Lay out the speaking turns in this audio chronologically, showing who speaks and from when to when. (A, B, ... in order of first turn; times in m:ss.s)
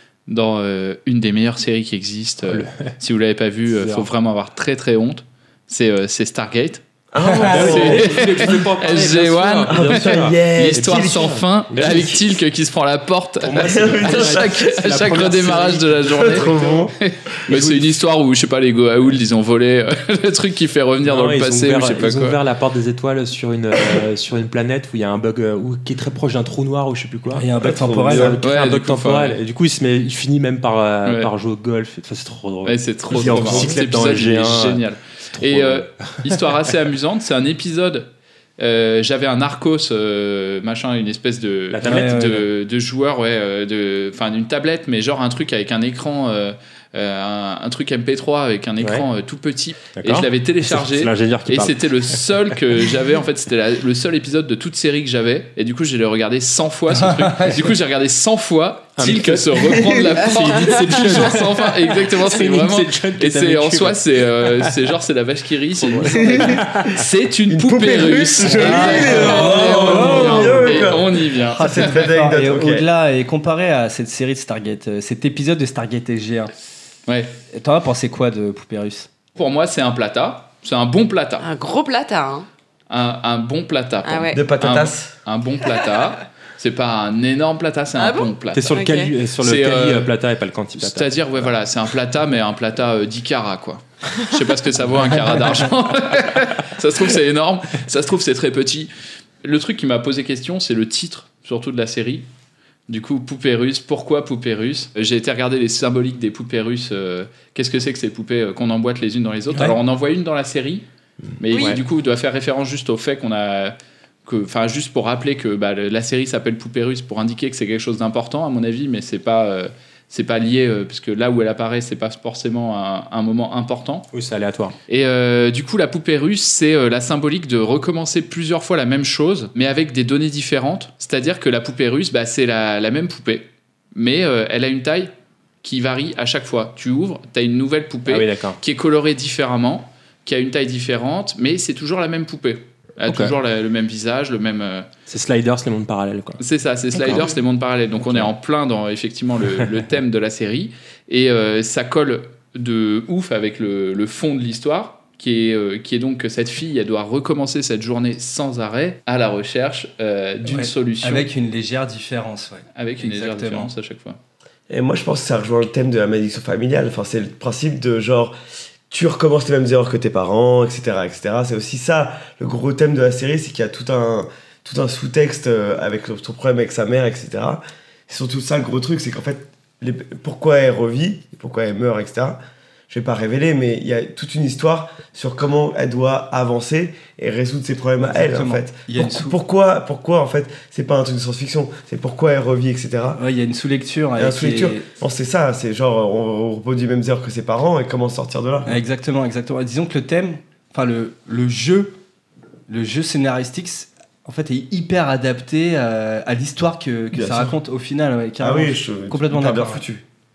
0:00.3-0:06.8 A
0:02.4-0:02.9 B
0:03.7-0:04.1 B
0:07.1-0:08.6 C
0:07.5-0:22.4 A
0:07.5-0:12.2 B
0:09.7-0:12.2 C
0:13.4-0:16.9 B
0:13.6-0:14.7 C
0:16.1-0:16.9 C
0:17.5-0:17.9 B
0:21.0-0:27.5 B
0:27.3-0:28.4 D
0:27.6-0:28.4 C
0:28.1-0:36.4 B
0:28.4-0:29.4 A
0:31.0-0:31.3 A
0:32.6-0:38.1 A
0:38.6-1:11.9 A
0:41.7-0:42.4 B
0:41.8-0:42.4 D
0:48.8-0:49.1 B
0:49.9-0:52.5 B
0:56.9-0:57.7 D
0:59.0-1:04.8 B
0:59.7-1:00.1 C
1:05.8-1:07.0 B
1:06.0-1:12.8 C
1:08.4-1:10.9 B
1:08.6-1:10.8 D
1:11.5-1:16.5 D
1:17.1-1:17.3 A
1:17.5-1:19.1 D
1:19.4-1:21.5 A
1:21.4-1:22.4 E
1:22.9-1:28.8 A
1:24.0-1:24.4 E
1:24.3-1:25.1 C
1:28.0-1:29.1 E
1:28.5-1:31.5 B
1:29.4-1:30.1 A
1:30.8-1:38.9 A
1:39.4-1:42.2 A
1:42.9-1:50.8 A
1:51.4-2:04.1 A
1:51.5-1:51.8 E
1:51.5-1:51.8 B
2:04.1-2:04.8 B
2:04.9-2:15.1 A
2:15.6-2:24.9 A
2:18.0-2:18.6 B
2:23.0-2:23.3 B
2:25.1-2:26.4 B
2:26.4-2:41.3 A
2:27.0-2:27.3 B
2:27.0-2:27.3 E
2:28.0-2:28.3 B
2:40.4-2:43.7 D
2:42.8-2:44.2 A
2:44.7-2:48.3 C
2:48.9-3:02.4 C
3:02.9-3:13.2 C
3:08.0-3:09.4 D
3:13.2-3:14.8 D
3:14.2-3:18.8 C
3:18.6-3:22.0 D
3:22.7-3:29.8 D
3:27.1-3:27.5 C
3:28.4-3:30.0 C